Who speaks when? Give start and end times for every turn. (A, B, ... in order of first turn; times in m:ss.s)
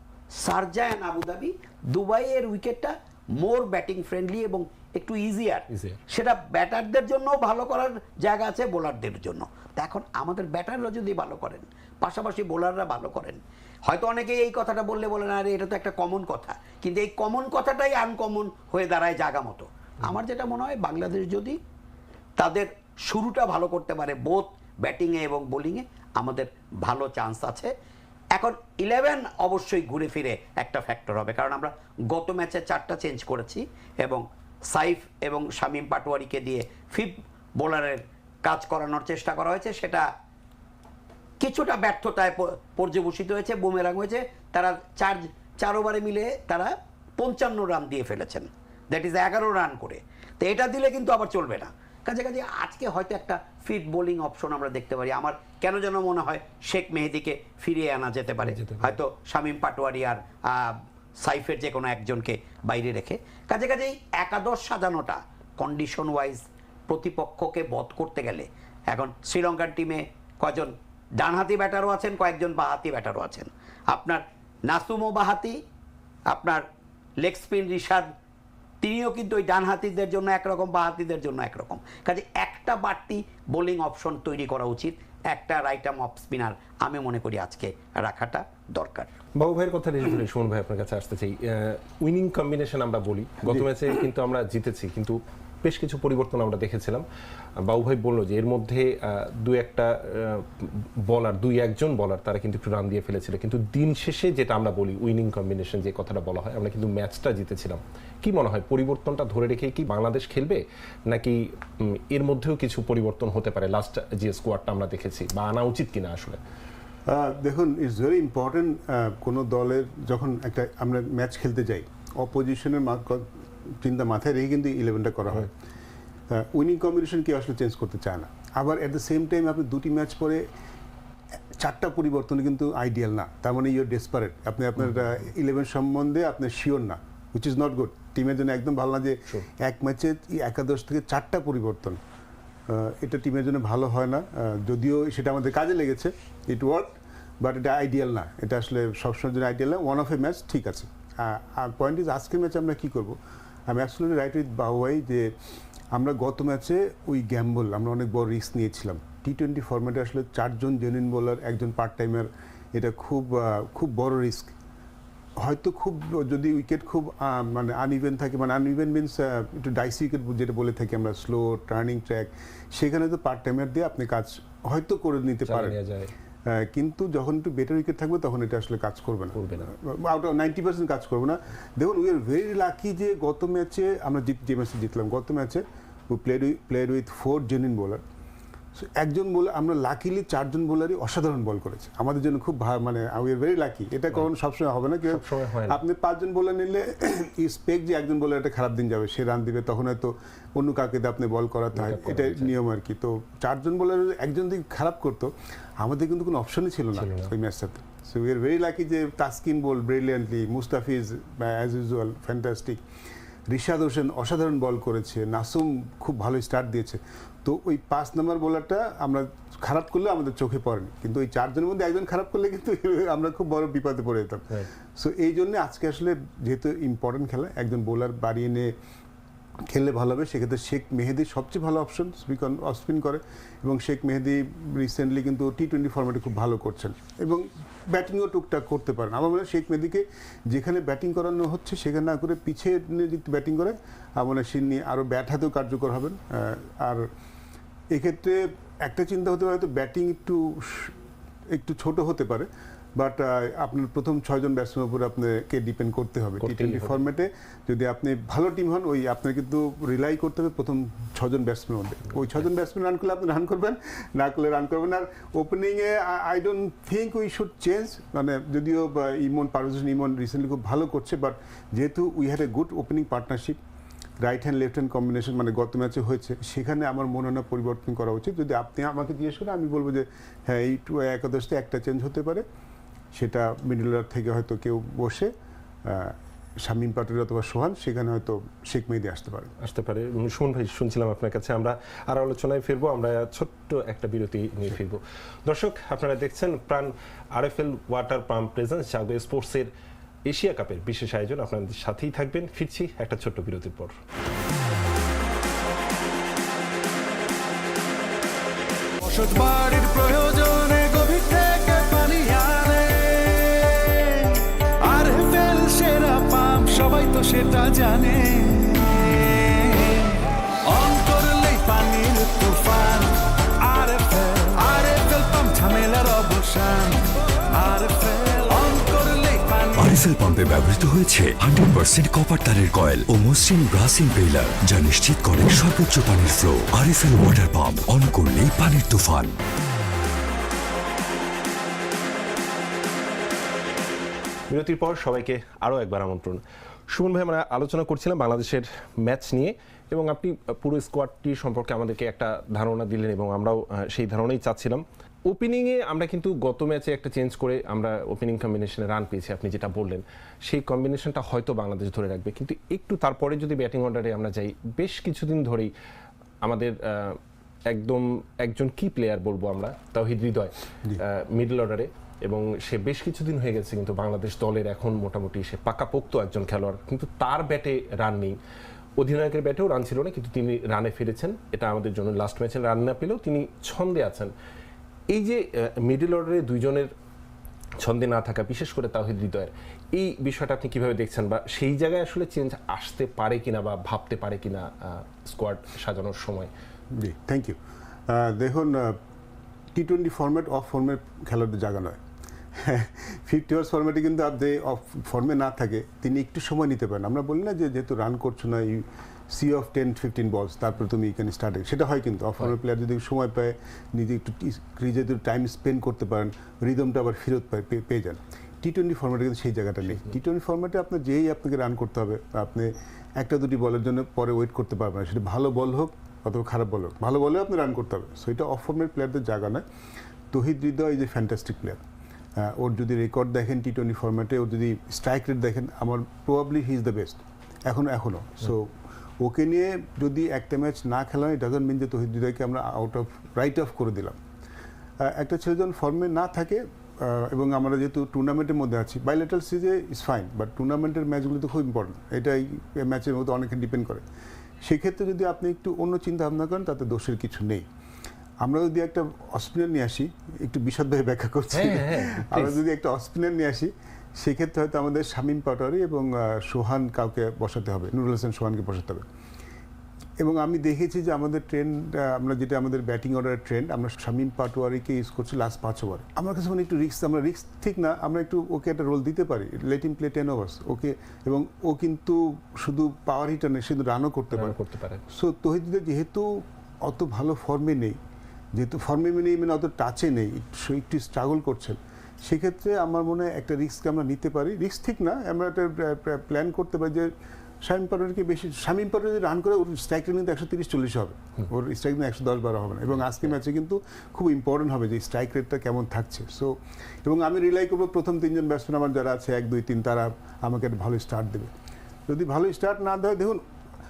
0:00.3-0:21.6 A
0:05.7-0:06.0 B
0:22.4-0:27.7 A
0:28.3-0:40.0 A
0:41.4-1:15.5 A
0:58.4-0:59.0 B
1:16.3-1:16.6 A
1:17.2-1:18.1 A
1:18.8-1:29.1 A
1:29.4-1:37.0 B
1:37.6-1:56.4 B
1:57.1-2:03.3 C
2:03.8-2:05.5 C
2:06.3-2:10.4 C
2:11.6-2:22.0 C
2:14.8-2:15.2 B
2:22.7-2:33.2 C
2:33.7-2:35.3 C
2:35.9-2:44.5 C
2:45.4-2:55.8 C
2:55.4-2:56.1 B
2:56.4-3:08.0 C
2:59.3-2:59.7 B
3:08.8-3:32.8 C
3:15.0-3:15.8 B
3:21.7-3:22.6 B
3:26.9-3:27.3 B
3:33.5-3:48.7 C
3:49.7-4:07.0 C
4:07.9-4:11.0 C
4:11.5-4:33.6 C
4:16.4-4:17.0 B
4:34.2-4:42.4 C
4:43.1-4:45.3 C
4:45.8-4:49.5 C
4:49.6-4:59.7 B
5:00.3-5:03.9 B
5:09.0-5:27.0 D
5:27.6-5:30.1 D
5:29.7-5:39.3 E
5:44.5-6:05.7 B
6:06.4-6:07.2 B
6:07.7-6:18.4 B
6:19.0-6:24.3 B
6:25.1-6:26.9 B
6:27.8-6:36.5 B
6:37.0-6:37.6 C
6:38.1-6:39.0 C
6:39.7-6:42.0 C
6:42.6-7:09.6 C
7:10.3-7:11.8 C
7:12.4-7:24.2 C
7:25.0-7:34.0 C
7:34.6-7:37.6 C
7:38.4-7:49.0 C
7:41.5-7:42.6 B
7:50.2-8:04.6 C
8:04.3-8:05.0 B
8:05.1-8:06.3 C
8:06.8-8:08.0 C
8:08.5-8:17.1 C
8:17.6-8:31.5 C
8:22.9-8:23.3 B
8:32.1-8:33.4 C